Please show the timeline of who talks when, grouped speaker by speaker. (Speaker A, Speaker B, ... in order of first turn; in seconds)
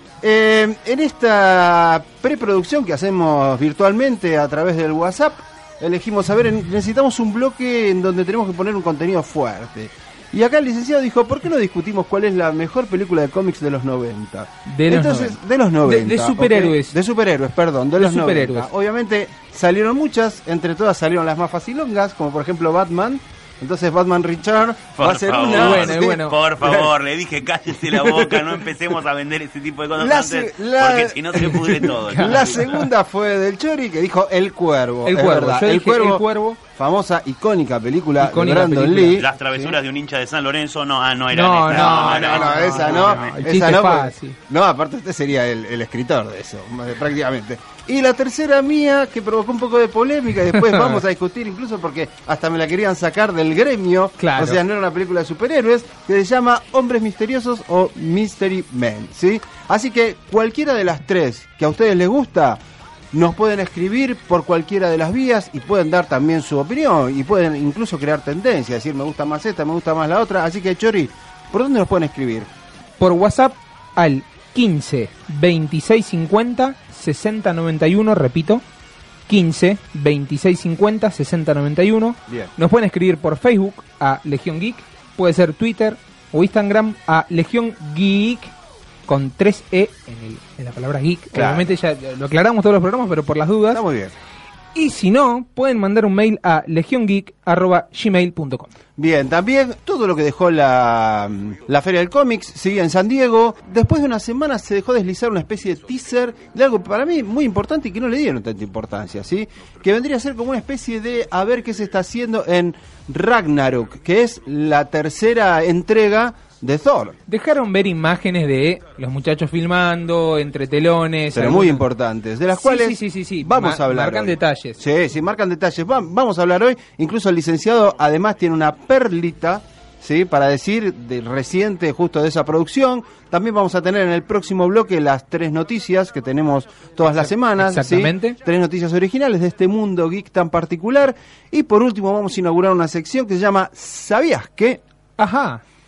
Speaker A: 0.2-26.9, 27.9-28.5, 30.0-39.8, 41.7-62.6, 63.1-72.5, 91.3-91.8, 93.7-94.2, 99.0-117.2, 121.3-144.8
Speaker B: 14.7-17.0, 18.0-18.7, 25.5-26.4, 32.1-32.9, 35.0-36.6, 38.2-39.2, 41.3-44.4, 50.5-51.0, 54.2-54.6, 73.0-78.6, 79.3-88.5, 89.1-93.8, 94.8-98.7, 117.3-121.8, 122.5-124.8, 137.2-138.4, 145.2-145.6
Speaker C: 25.0-32.7, 39.1-43.4